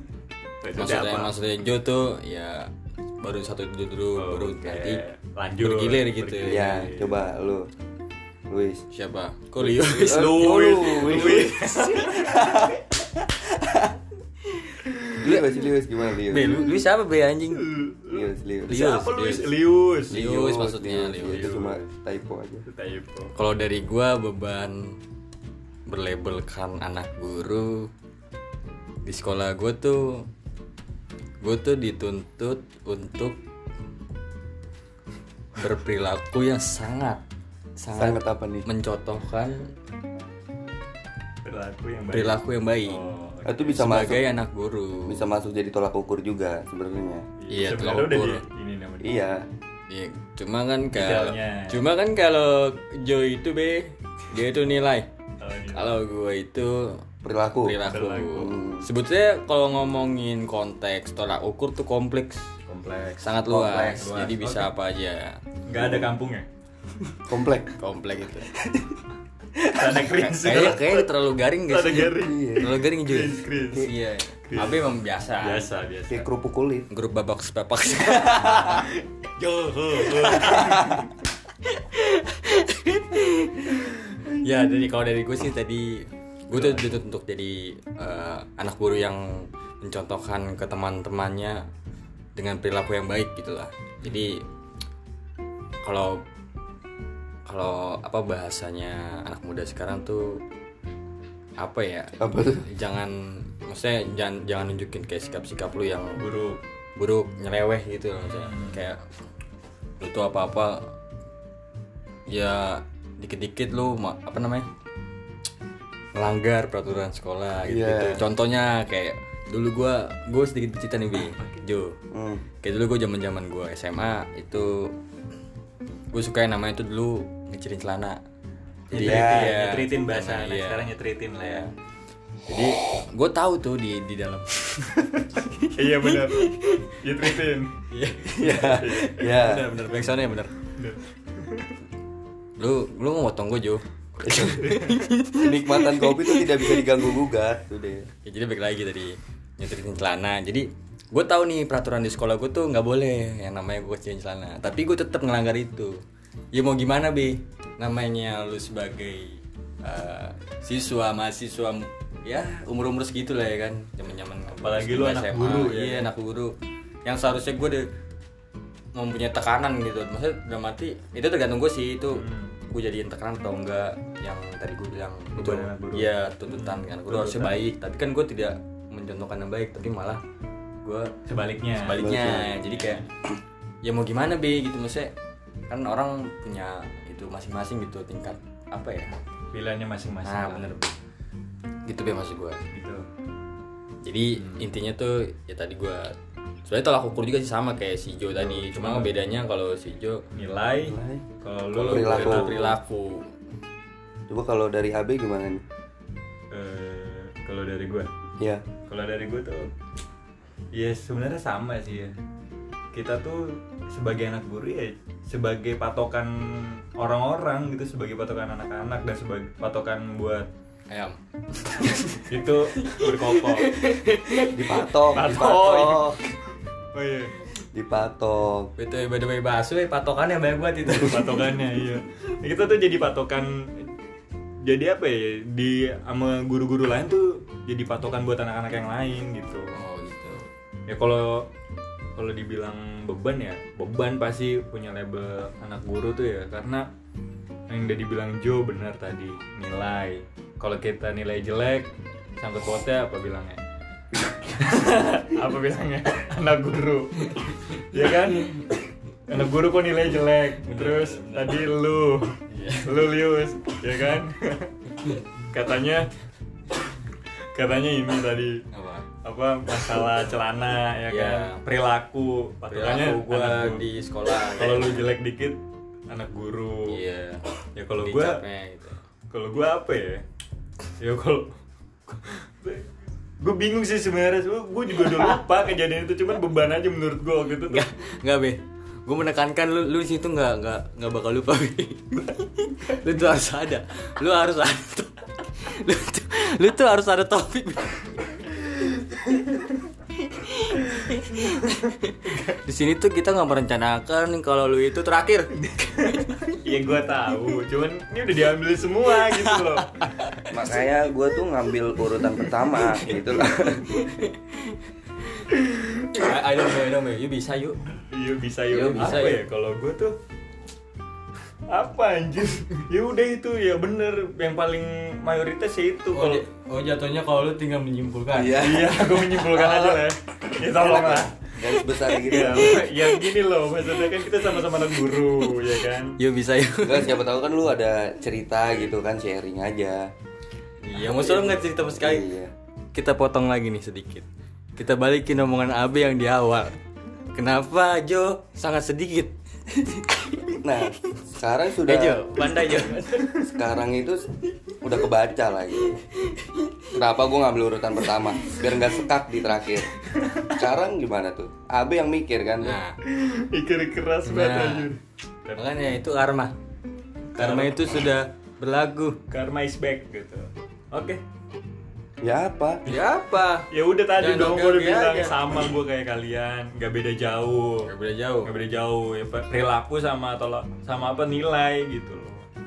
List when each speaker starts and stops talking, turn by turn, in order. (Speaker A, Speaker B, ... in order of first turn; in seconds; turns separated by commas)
Speaker A: 0.6-1.3, Speaker B: 0.7-5.0, Speaker A: 4.1-7.2, Speaker B: 5.6-6.8, Speaker C: 6.5-7.7, Speaker C: 8.5-8.8, Speaker B: 8.9-11.6, Speaker A: 9.7-12.6, Speaker C: 10.0-12.8, Speaker A: 14.7-15.2, Speaker C: 15.2-16.9, Speaker B: 15.2-15.5, Speaker B: 16.3-17.7, Speaker A: 17.5-20.2, Speaker C: 18.1-18.7, Speaker B: 18.7-19.5, Speaker B: 20.1-21.5, Speaker C: 20.1-22.6, Speaker A: 21.2-21.9, Speaker A: 22.6-23.3, Speaker B: 23.3-25.0, Speaker B: 25.9-27.9, Speaker B: 29.0-30.2, Speaker B: 31.4-33.4, Speaker B: 35.5-37.2, Speaker B: 37.8-39.6, Speaker C: 37.9-38.7, Speaker A: 41.4-44.0, Speaker B: 42.1-43.0, Speaker C: 43.4-44.3, Speaker B: 43.8-45.2, Speaker C: 45.1-47.2, Speaker A: 47.4-49.2, Speaker B: 47.5-48.4, Speaker C: 49.0-49.4, Speaker B: 49.9-55.1, Speaker A: 50.9-51.9, Speaker A: 55.4-55.9, Speaker B: 55.7-62.5, Speaker C: 57.2-57.8, Speaker A: 57.8-58.4, Speaker C: 58.3-58.9, Speaker A: 62.7-64.7, Speaker B: 63.2-65.4, Speaker C: 63.5-64.0, Speaker A: 65.7-66.5, Speaker C: 65.7-66.1, Speaker C: 67.2-67.7, Speaker B: 67.8-68.5, Speaker C: 68.5-69.0, Speaker A: 69.7-71.1, Speaker B: 70.3-75.7, Speaker A: 71.7-74.9, Speaker C: 72.2-72.7, Speaker A: 75.4-76.3, Speaker C: 76.1-76.9, Speaker B: 76.9-78.8, Speaker A: 78.2-81.1, Speaker B: 79.9-80.9, Speaker B: 81.7-91.6, Speaker A: 86.5-86.9, Speaker B: 92.3-94.4, Speaker B: 95.8-96.2, Speaker B: 97.5-100.4, Speaker B: 101.6-106.2, Speaker C: 102.2-102.7, Speaker A: 106.2-106.6, Speaker B: 107.0-109.0, Speaker A: 108.2-108.8, Speaker B: 110.0-110.9, Speaker B: 112.3-114.7, Speaker B: 116.1-122.0, Speaker C: 117.6-118.2, Speaker A: 121.2-121.6, Speaker C: 122.1-122.4, Speaker B: 122.6-124.9, Speaker B: 126.1-128.2, Speaker A: 128.9-131.7, Speaker B: 128.9-131.7, Speaker C: 128.9-129.5, Speaker B: 132.5-136.5, Speaker A: 135.6-137.7, Speaker B: 137.9-140.5, Speaker C: 138.3-139.7, Speaker A: 138.8-139.2, Speaker A: 140.8-141.7, Speaker B: 142.6-146.8, Speaker C: 144.2-144.7, Speaker A: 144.6-145.0, Speaker C: 145.4-148.1, Speaker B: 148.2-156.0, Speaker B: 156.5-167.9, Speaker A: 164.5-166.1, Speaker B: 168.9-180.2, Speaker A: 172.1-172.5, Speaker A: 175.3-177.6, Speaker B: 180.8-181.1, Speaker A: 181.2-182.1, Speaker B: 181.7-183.1, Speaker C: 182.0-182.7, Speaker A: 182.7-183.0, Speaker B: 183.8-185.1, Speaker B: 185.7-189.1, Speaker A: 189.5-190.7, Speaker B: 190.2-190.9, Speaker B: 191.8-192.6, Speaker A: 192.7-193.1, Speaker B: 194.0-196.1, Speaker B: 196.7-200.2, Speaker A: 198.3-199.2, Speaker A: 200.3-202.7, Speaker C: 200.8-202.6, Speaker B: 201.8-203.3, Speaker C: 204.3-205.6, Speaker A: 206.5-208.1, Speaker A: 208.9-209.7, Speaker A: 210.7-212.1, Speaker A: 212.9-220.5, Speaker B: 220.9-225.1, Speaker A: 222.3-223.7, Speaker C: 224.5-226.2, Speaker A: 225.1-226.2, Speaker A: 226.9-227.3, Speaker C: 227.7-228.7, Speaker B: 228.8-231.5, Speaker A: 230.9-233.9, Speaker A: 234.6-239.8, Speaker B: 239.7-240.5, Speaker A: 240.9-241.5, Speaker A: 242.2-246.9, Speaker A: 247.7-253.6, Speaker A: 254.5-258.7, Speaker A: 259.3-264.7, Speaker B: 260.6-261.6, Speaker B: 262.5-263.1, Speaker A: 265.5-266.1, Speaker A: 267.5-268.6, Speaker B: 268.7-269.1, Speaker A: 269.2-277.0, Speaker B: 271.1-271.6, Speaker B: 272.7-275.1, Speaker B: 276.9-277.4, Speaker A: 277.7-278.4, Speaker B: 277.9-279.0, Speaker A: 279.3-280.2, Speaker A: 281.0-281.5, Speaker A: 282.1-282.9, Speaker A: 283.4-287.8, Speaker B: 287.7-298.5, Speaker B: 300.2-306.4, Speaker A: 301.4-301.7, Speaker A: 305.7-309.9, Speaker B: 309.2-310.4, Speaker C: 310.5-314.0, Speaker B: 313.9-314.8, Speaker B: 316.1-317.8, Speaker A: 318.1-320.2, Speaker B: 318.7-319.4, Speaker A: 321.7-326.4, Speaker B: 326.1-328.9, Speaker C: 328.3-330.0, Speaker A: 328.6-336.2, Speaker C: 330.8-332.8, Speaker B: 332.1-333.2, Speaker B: 334.0-335.6, Speaker B: 336.2-337.1, Speaker C: 336.8-340.1, Speaker B: 340.8-342.2, Speaker C: 341.1-342.5, Speaker B: 342.9-346.8, Speaker B: 347.3-350.6, Speaker C: 350.6-352.3, Speaker B: 351.8-353.5, Speaker C: 353.5-354.2, Speaker C: 354.8-356.0, Speaker B: 356.3-356.6, Speaker C: 356.9-359.9, Speaker A: 360.1-360.6, Speaker C: 360.6-362.8, Speaker B: 362.6-363.0, Speaker A: 363.0-365.6, Speaker B: 364.2-364.9, Speaker B: 365.5-366.5, Speaker A: 367.3-368.1, Speaker B: 367.3-369.2, Speaker A: 369.3-371.2, Speaker C: 372.2-372.8, Speaker B: 372.9-375.4, Speaker A: 373.7-377.9, Speaker B: 377.8-378.5, Speaker A: 378.4-382.4